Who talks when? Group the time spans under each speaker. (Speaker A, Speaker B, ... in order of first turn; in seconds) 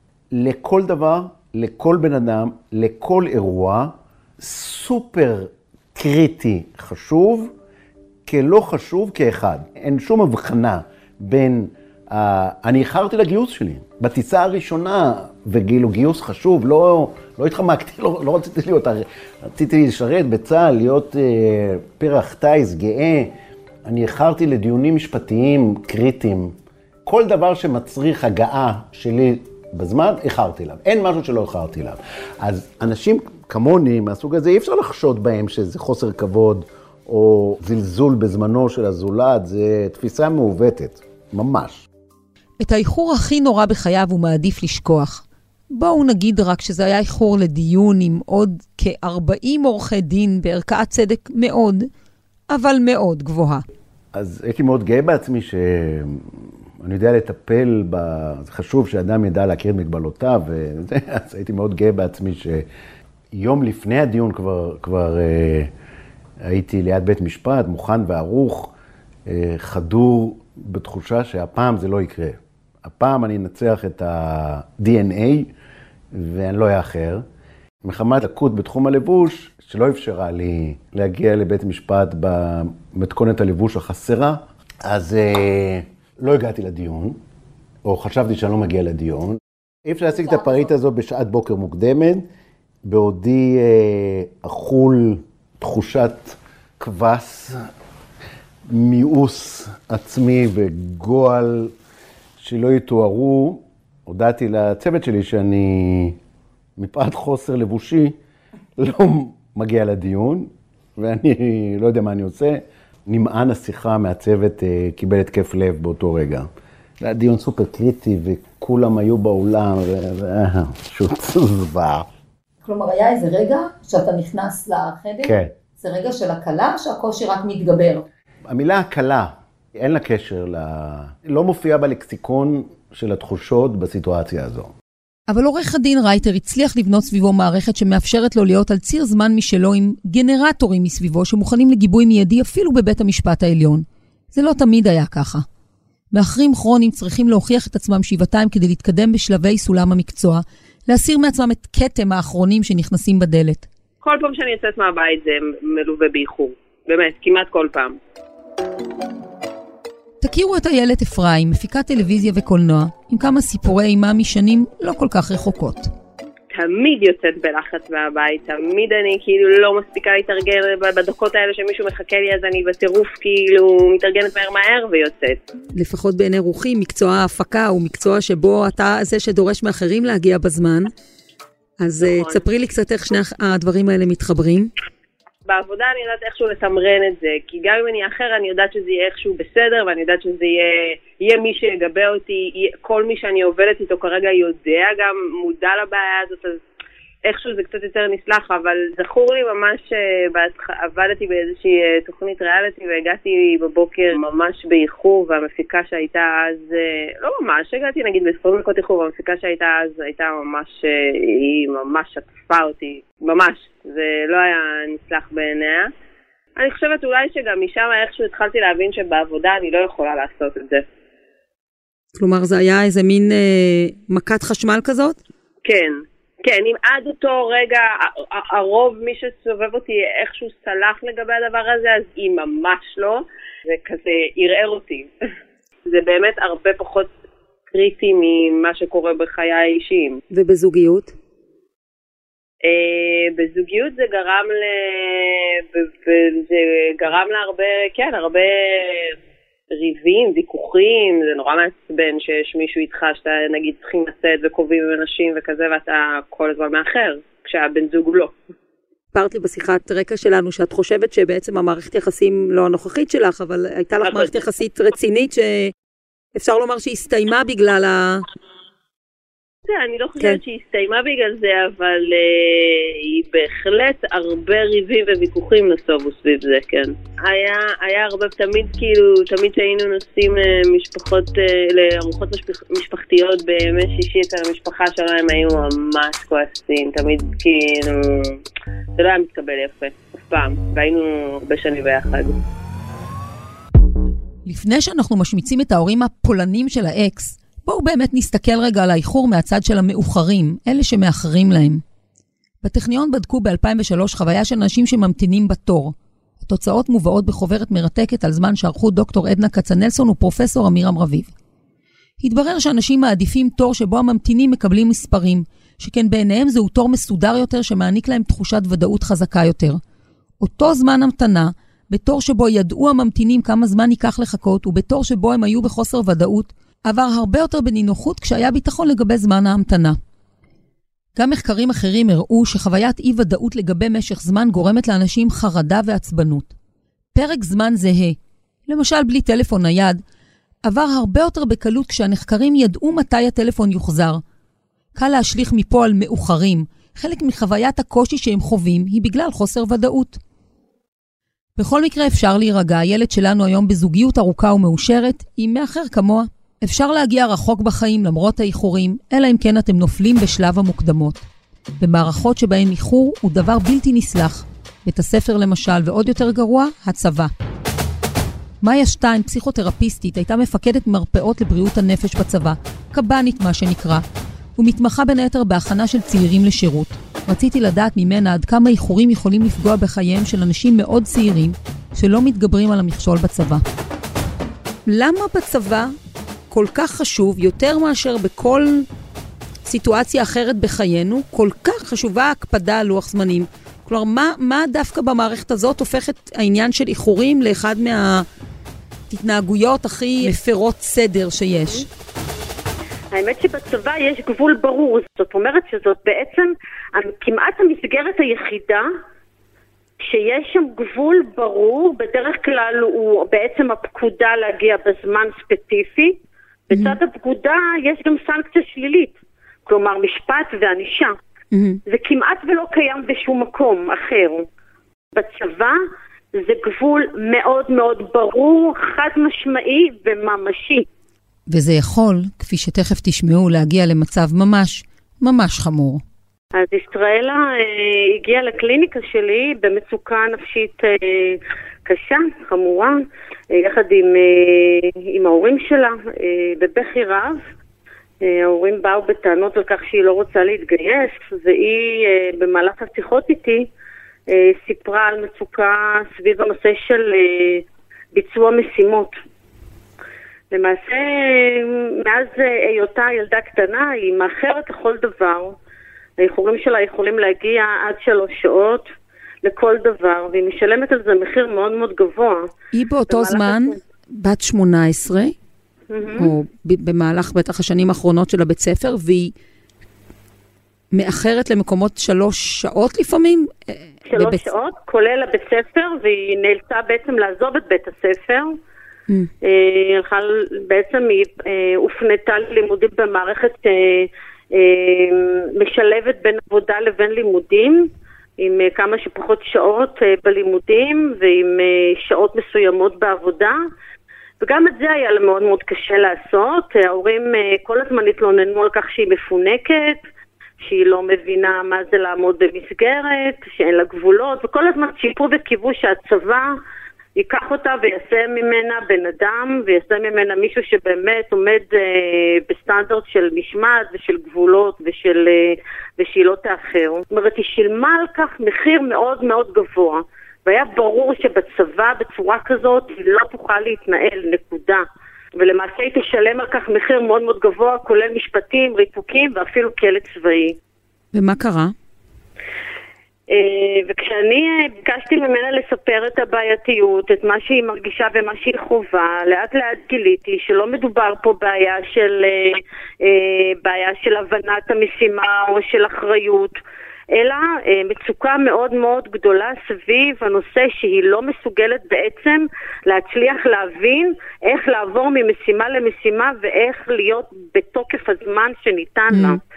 Speaker A: 0.3-7.5, 8.3-23.3, 23.9-26.5, 27.1-41.9, 54.1-62.7, 63.3-65.7, 66.5-68.7, 69.3-75.5, 76.1-77.2, 77.8-87.2, 87.9-92.3, 92.8-97.7, 98.7-101.7, 102.4-106.2, 106.8-108.2, 108.8-116.5, 117.0-122.1, 125.2-125.5, 128.5-134.7
Speaker B: 42.6-51.9, 52.5-53.6, 122.6-128.1, 135.3-145.4, 146.1-153.7, 160.2-165.9, 175.8-180.9, 181.8-184.7, 222.2-225.2, 240.3-241.1, 259.1-265.7, 266.4-268.3, 294.5-301.8, 302.6-311.3, 312.2-319.8, 320.4-330.0, 331.2-336.5, 337.1-340.0, 340.6-344.2, 345.0-350.2, 351.6-361.2, 361.8-367.3, 368.6-374.0, 374.6-383.6, 384.9-385.9, 386.5-388.9, 389.7-398.3, 399.1-401.9, 421.5-421.8, 431.5-436.0, 472.7-475.4, 476.2-479.3, 480.9-484.5, 541.1-541.7, 569.1-569.4
Speaker C: 154.0-158.0, 166.5-175.4, 182.0-182.4, 185.5-196.6, 197.2-215.9, 216.6-220.8, 225.7-235.1, 235.9-237.1, 237.7-240.2, 242.6-249.2, 249.8-258.3, 264.1-264.3, 269.7-288.4, 289.0-292.4
Speaker D: 403.1-408.9, 410.0-416.2, 416.7-421.1, 421.9-424.4, 425.1-425.8, 426.4-430.9, 436.6-443.0, 443.5-447.4, 448.2-453.7, 454.3-459.1, 460.5-465.6, 466.2-468.9, 469.4-472.5, 473.1-473.8, 475.9-476.3, 484.1-488.6, 489.4-503.6, 504.4-510.0, 510.6-516.5, 517.2-534.8, 535.4-540.6, 543.3-556.6, 557.1-569.4